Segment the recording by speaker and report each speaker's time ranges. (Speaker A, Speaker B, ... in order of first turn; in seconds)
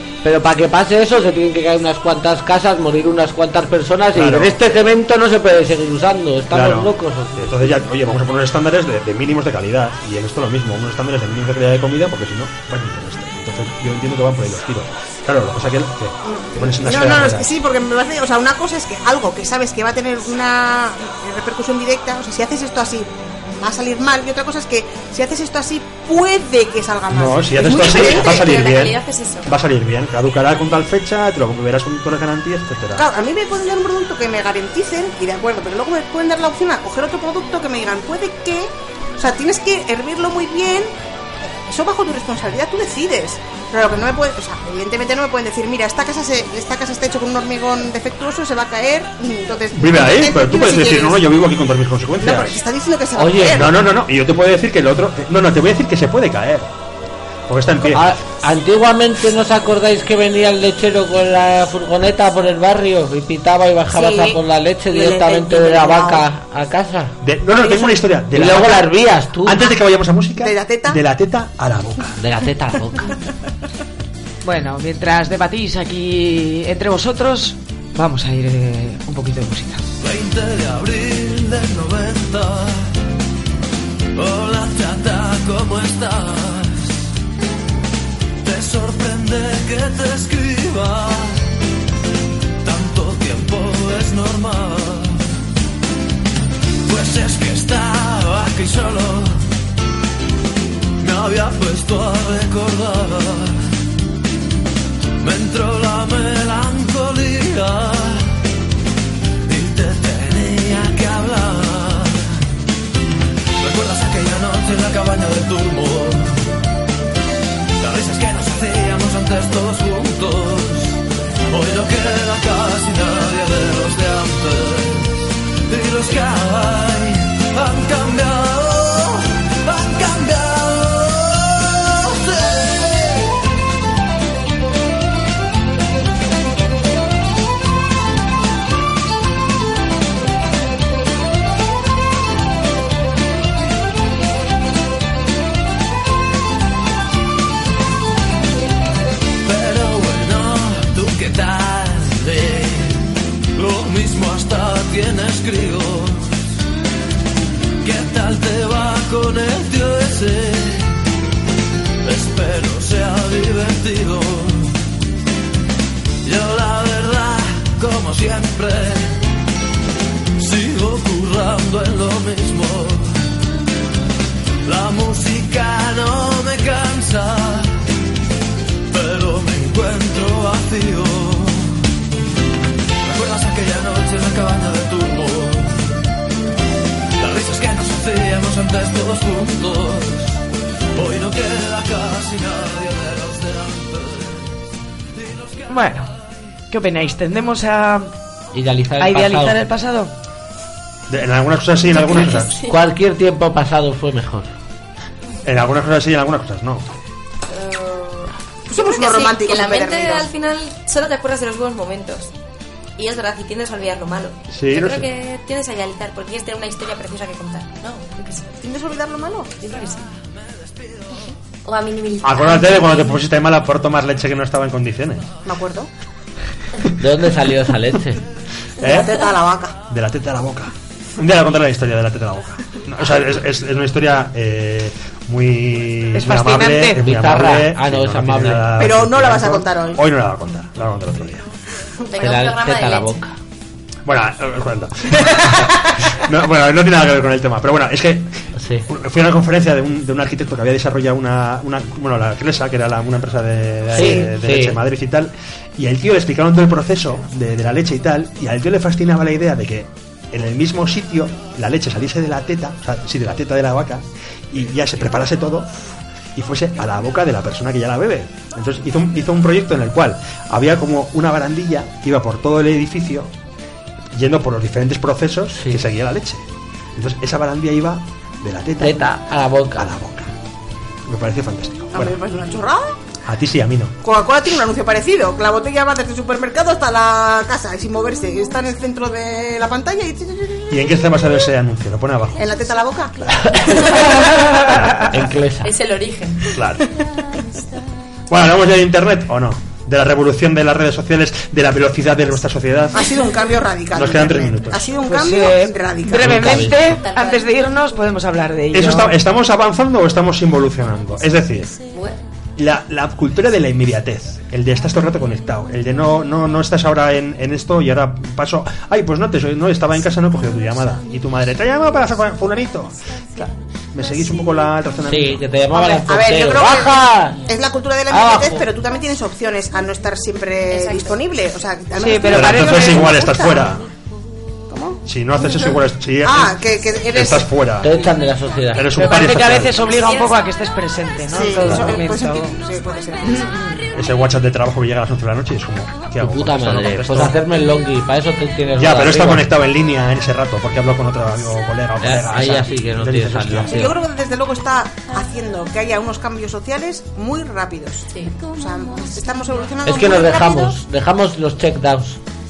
Speaker A: 0.2-7.8, 53.2-53.7, 57.9-67.2, 68.3-69.7, 72.2-73.1, 198.5-199.6, 202.7-204.5, 227.0-228.2, 237.0-238.7, 242.2-243.3, 248.6-248.8, 253.9-254.8, 278.8-279.9, 293.5-295.7, 306.2-306.6, 325.1-327.4, 328.1-328.6, 337.8-338.9, 341.6-342.0, 346.2-349.4, 352.0-353.9, 359.8-362.2
Speaker B: 4.1-4.6, 6.5-17.5, 27.1-33.1, 49.7-52.6, 53.5-56.7, 57.5-58.2, 67.2-68.8, 69.4-72.2, 201.1-202.6, 205.4-206.8, 214.5-215.1, 222.2-225.3, 228.8-229.2, 229.9-241.4, 244.1-273.3, 274.1-279.0, 279.7-280.3, 281.1-282.1, 283.2-284.0, 290.7-292.4, 294.6-295.3, 296.5-296.9, 298.3-303.1, 303.9-304.8, 306.2-306.8, 308.7-311.7, 312.6-325.4, 332.3-333.8, 335.1-337.9, 338.7-339.8, 343.9-347.4, 348.7-353.8
Speaker C: 16.2-28.5, 33.0-51.3, 52.2-53.8, 63.9-64.4, 64.9-66.2, 67.6-68.0, 70.4-71.0, 208.7-210.3, 218.6-219.5, 225.4-225.9, 228.8-229.8, 238.8-240.0, 281.9-283.0, 284.0-290.7, 292.4-294.3, 302.9-306.7, 325.7-333.7, 334.7-337.5, 341.3-343.8, 353.7-360.8
Speaker D: 27.8-29.5, 201.9-202.7, 207.5-212.3, 213.0-218.5, 219.6-220.0, 221.6-222.8, 242.0-243.1, 295.6-296.4, 306.8-307.5, 311.9-312.2, 330.7-331.1, 339.9-340.3
Speaker E: 74.4-79.8, 195.7-196.1, 196.7-198.1, 199.0-200.1, 236.1-237.0, 305.1-309.1, 332.0-333.1, 338.9-342.6, 343.2-343.8
Speaker F: 80.0-83.0, 84.1-87.1, 88.4-91.5, 92.6-95.3, 96.8-99.5, 101.0-103.7, 105.2-108.4, 109.5-112.5, 113.6-116.6, 117.8-133.4, 149.4-156.4, 157.8-161.0, 162.0-164.8, 166.2-169.2, 170.4-173.3, 174.6-177.8, 178.9-181.9, 183.0-186.0, 187.2-190.4, 190.9-194.6, 195.1-196.1, 220.7-221.0